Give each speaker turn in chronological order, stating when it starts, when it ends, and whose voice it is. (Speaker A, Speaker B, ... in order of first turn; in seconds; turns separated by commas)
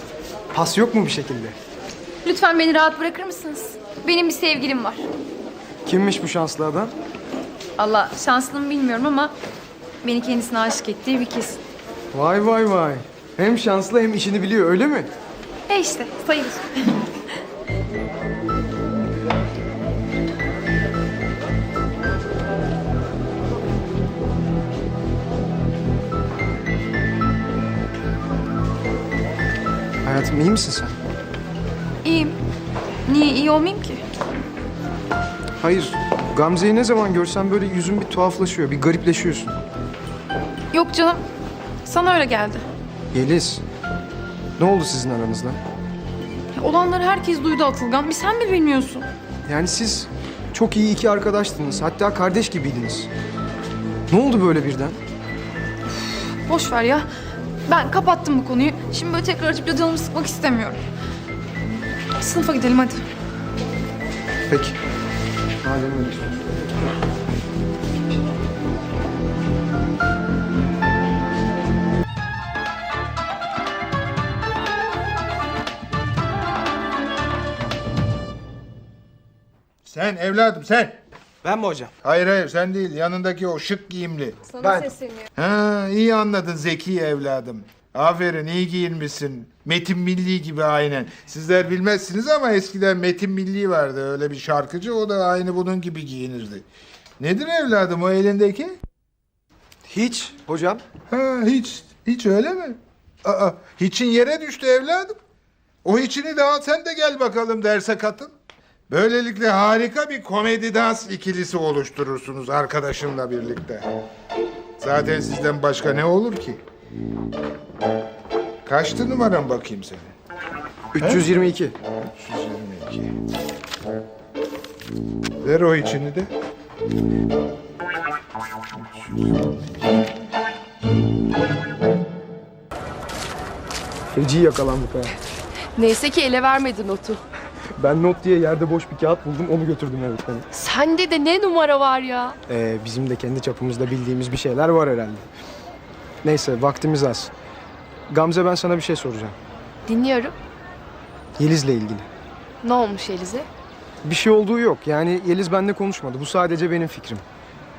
Speaker A: 0.5-1.6, Speaker B: 2.2-5.1, Speaker A: 5.8-6.9, Speaker B: 7.8-9.3, Speaker B: 10.0-11.6, Speaker A: 12.1-15.1, Speaker B: 15.7-17.1, Speaker A: 30.0-30.9, Speaker B: 32.0-32.4, Speaker B: 33.0-34.0, Speaker A: 35.6-39.6, Speaker B: 40.7-41.2, Speaker B: 41.8-42.6, Speaker A: 43.1-43.6, Speaker A: 44.6-45.6, Speaker B: 46.5-49.1, Speaker A: 49.4-53.1, Speaker A: 54.1-55.0, Speaker B: 56.0-57.0, Speaker B: 57.7-60.8, Speaker B: 62.2-63.0, Speaker A: 64.5-64.8, Speaker A: 65.6-66.5, Speaker C: 79.8-81.0, Speaker A: 81.4-81.9, Speaker C: 82.0-84.4, Speaker A: 84.6-85.0, Speaker B: 84.7-85.2, Speaker C: 85.3-96.7, Speaker C: 97.2-98.7, Speaker A: 99.9-100.8, Speaker C: 101.1-105.2, Speaker C: 105.8-108.3, Speaker C: 108.9-113.8, Speaker C: 114.8-116.6, Speaker C: 118.6-120.1, Speaker A: 120.9-121.7, Speaker C: 121.0-121.3, Speaker C: 122.1-123.2, Speaker C: 125.4-126.3, Speaker A: 134.1-135.2, Speaker D: 135.8-137.2, Speaker A: 137.7-140.5, Speaker D: 140.5-142.4, Speaker A: 142.5-145.2, Speaker A: 146.2-147.3, Speaker A: 148.1-149.3, Speaker D: 149.9-150.3, Speaker A: 151.4-152.1, Speaker D: 152.6-153.4, Speaker A: 154.0-157.2